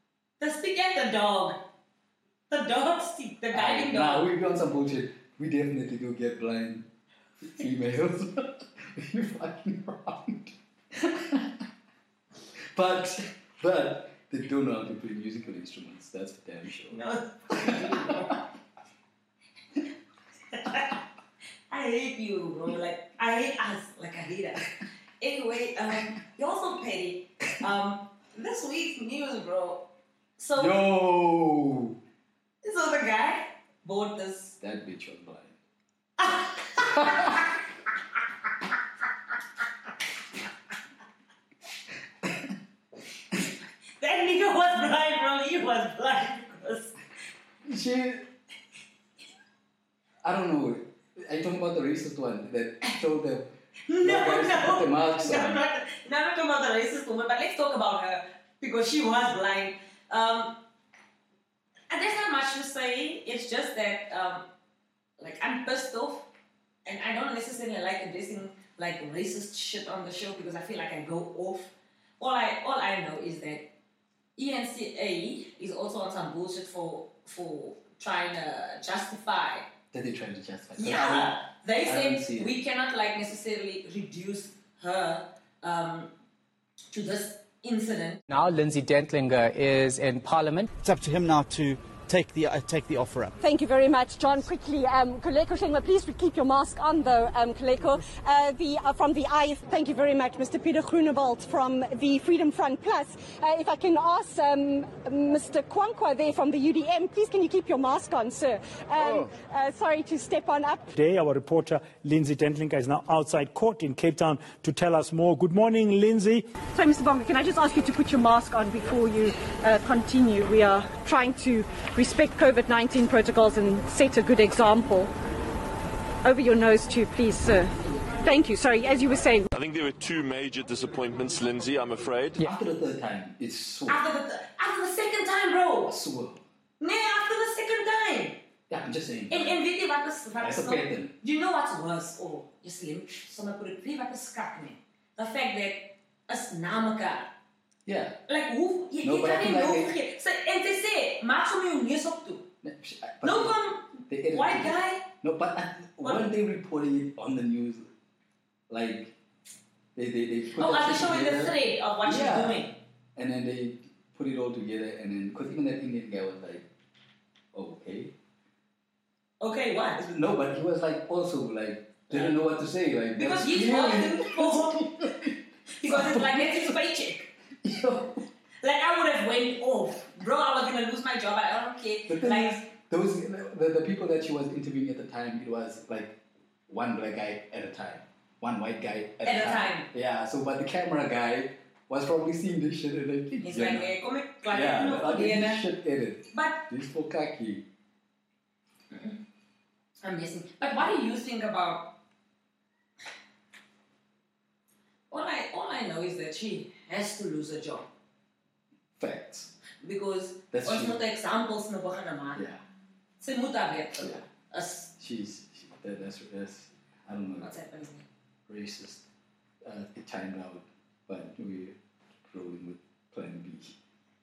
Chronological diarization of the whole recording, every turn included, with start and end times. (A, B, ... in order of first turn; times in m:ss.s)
0:00.4-0:01.6 A
0:02.5-0:04.3 A
0:03.5-0:06.9 B
0:07.5-0:11.6 B
0:12.7-0:18.3 B
0:16.9-0:18.4 A
0:20.5-0:21.0 A
0:21.7-0:29.8 A
0:30.4-0:30.8 A
0:30.6-0:32.0 B
0:32.6-0:34.6 A
0:34.6-0:35.6 B
0:36.2-0:37.4 A
0:37.0-0:37.4 B
0:42.2-0:42.5 B
0:44.0-0:46.9 A
0:47.6-0:48.3 B
0:50.2-0:53.5 B
0:53.9-1:00.6 A
0:54.0-0:55.6 B
1:01.9-1:04.5 A
1:05.2-1:06.2 A
1:06.9-1:13.7 A
1:14.4-1:19.6 A
1:19.9-1:22.5 B
1:20.8-1:26.1 A
1:26.9-1:28.2 A
1:28.3-1:30.7 C
1:30.8-1:33.3 D
1:33.4-1:50.9 E
1:50.9-1:56.5 F
1:56.7-2:05.1 E
2:06.2-2:09.5 E
2:09.5-2:12.4 G
2:12.4-2:14.1 B
2:13.9-2:16.0 A
2:15.9-2:16.4 B
2:16.8-2:18.4 A
2:18.7-2:19.6 B
2:19.3-2:27.3 A
2:20.4-2:21.1 B
2:27.9-2:28.2 B
2:28.3-2:32.4 A
2:29.0-2:30.0 B
2:32.6-2:37.9 B
2:33.2-2:35.0 A
2:38.7-2:39.2 B
2:40.0-2:42.6 B
2:40.6-2:42.8 A
2:43.2-2:46.7 B
2:47.5-2:48.1 B
2:49.4-2:50.0 A
2:50.0-2:56.8 B
2:52.1-2:52.4 A
2:53.2-2:55.1 A
2:55.8-2:57.3 A
2:57.6-2:58.2 B
2:58.6-3:02.6 A
3:02.1-3:06.2 B
3:06.7-3:13.9 B
3:09.2-3:09.9 A
3:13.4-3:15.6 A
3:14.5-3:17.6 B
3:16.3-3:16.7 A
3:18.9-3:19.2 A
3:20.0-3:21.9 A
3:25.1-3:27.9 A
3:29.0-3:29.5 B
3:29.8-3:32.4 A
3:30.5-3:31.0 B
3:32.4-3:32.6 B
3:33.2-3:34.9 A
3:35.0-3:37.5 B
3:37.4-3:38.1 A
3:38.5-3:39.1 B
3:39.6-3:43.8 B